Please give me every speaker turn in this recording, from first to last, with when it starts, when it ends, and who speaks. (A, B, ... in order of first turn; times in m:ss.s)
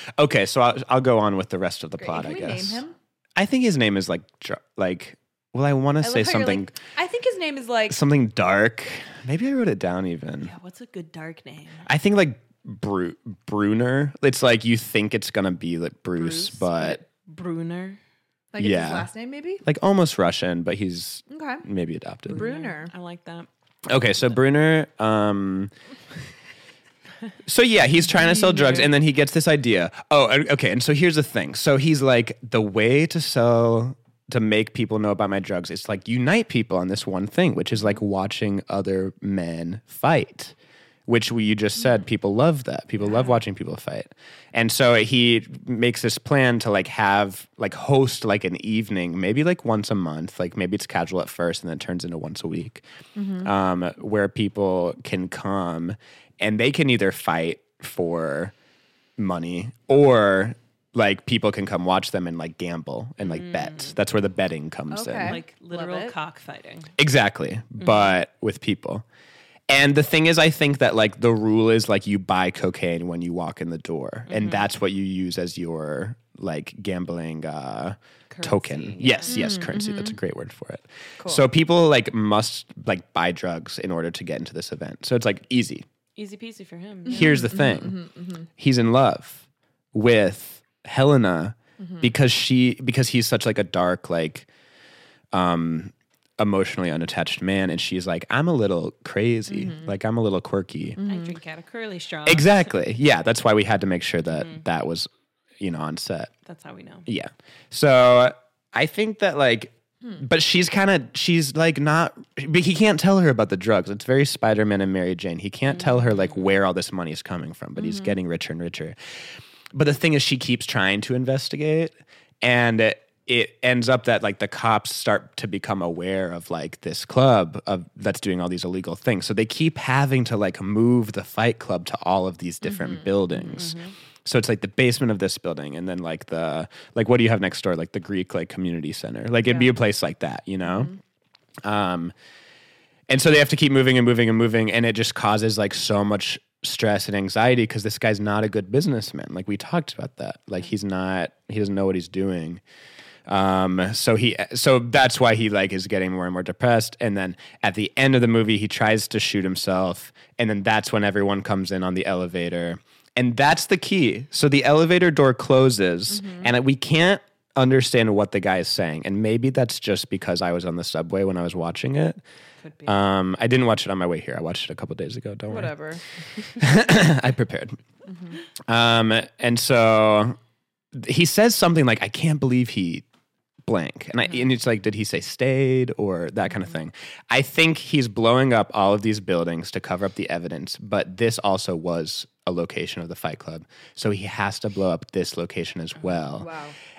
0:00.2-0:02.8 A
0:02.0-0:03.0 B
0:03.4-0:06.8 A
0:06.0-0:08.0 B
0:07.9-0:10.5 A
0:10.4-0:11.9 C
0:11.8-0:17.0 A
0:16.2-0:18.0 C
0:18.5-0:19.6 B
0:18.6-0:19.1 A
0:19.6-0:22.5 A
0:21.3-0:21.6 B
0:22.3-0:23.5 C
0:22.3-0:22.9 B
0:23.8-0:25.7 A
0:27.4-0:40.5 A
0:28.4-0:28.9 C
0:41.1-0:52.8 A
0:53.1-0:53.5 B
0:53.4-0:58.5 A
0:59.2-1:05.4 A
1:03.2-1:04.0 C
1:04.9-1:06.1 B
1:05.2-1:06.9 C
1:07.0-1:09.0 A
1:07.8-1:08.2 C
1:09.7-1:25.8 A
1:14.3-1:14.7 C
1:18.3-1:19.4 C
1:19.3-1:20.2 B
1:21.2-1:21.4 B
1:26.2-1:27.5 C
1:27.1-1:28.0 A
1:27.1-1:28.5 B
1:28.6-1:34.5 A
1:31.8-1:32.1 B
1:35.3-1:41.0 A
1:39.5-1:39.9 B
1:41.0-1:41.3 B
1:41.0-1:42.7 C
1:42.2-1:45.1 A
1:45.6-1:46.3 A
1:46.4-1:47.1 C
1:47.1-1:59.0 A
1:55.7-1:56.5 C
1:57.8-1:58.1 B
1:59.7-2:20.9 A
2:12.6-2:13.6 B
2:13.5-2:13.9 C
2:21.6-2:22.1 A
2:23.1-2:32.6 A
2:33.3-2:52.2 A
2:46.1-2:46.5 B
2:52.6-2:53.0 C
2:52.8-2:55.7 A
2:55.5-2:56.0 B
2:56.6-2:57.8 A
2:58.0-2:58.4 B
2:58.7-3:00.4 A
3:00.9-3:03.0 A
3:03.6-3:16.5 A
3:16.3-3:16.8 B